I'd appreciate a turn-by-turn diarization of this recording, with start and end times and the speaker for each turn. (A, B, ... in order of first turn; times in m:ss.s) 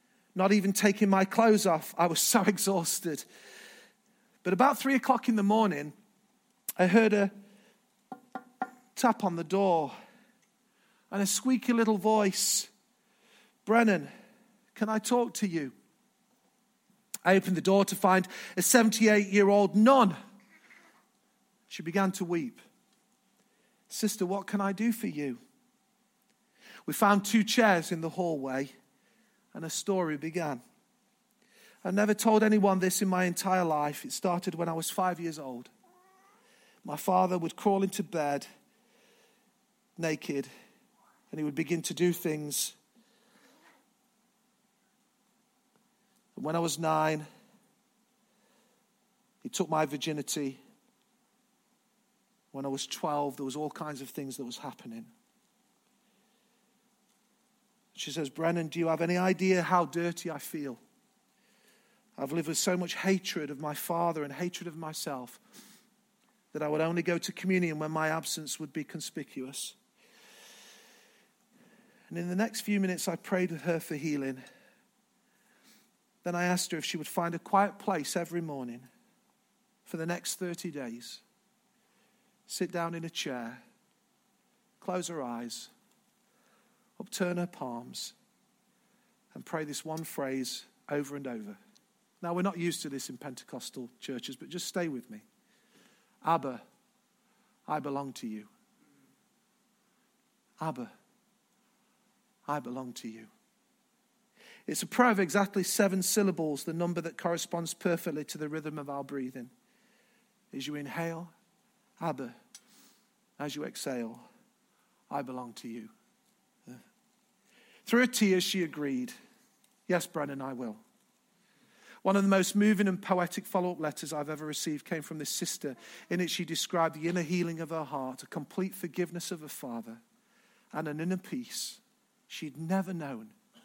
0:00.4-0:03.2 A
0:04.4-0:05.9 A
0:06.8-0:07.3 A
0:09.0-0:09.9 A
0:11.1-0:12.7 A
0:13.6-0:14.1 A
0:14.8-0:15.7 A
0:17.2-0:20.2 A
0:21.7-0:22.6 A
0:23.9-0:25.4 A
0:26.9-0:28.7 A
0:29.5-0:30.6 A
0:31.8-0:35.7 A
0:36.8-0:38.4 A
0:40.0-0:40.5 A
0:41.3-0:42.8 A
0:46.4-0:47.2 A
0:49.4-0:50.6 A
0:52.5-0:55.1 A
0:58.0-1:00.8 A
1:02.2-1:05.4 A
1:06.5-1:09.8 A
1:12.1-1:14.4 A
1:16.2-1:18.9 A
1:19.9-1:21.2 A
1:22.5-1:23.6 A
1:24.8-1:25.7 A
1:27.0-1:28.2 A
1:29.3-1:31.6 A
1:32.2-1:35.2 A
1:36.2-1:36.6 A
1:37.7-1:38.5 A
1:40.6-1:40.9 A
1:42.5-1:43.3 A
1:44.7-1:49.5 A
1:50.5-1:51.3 A
1:52.0-1:52.4 A
1:53.4-1:54.2 A
1:55.1-1:55.9 A
1:57.9-1:59.2 A
1:59.9-2:00.8 A
2:02.0-2:10.0 A
2:10.7-2:13.4 A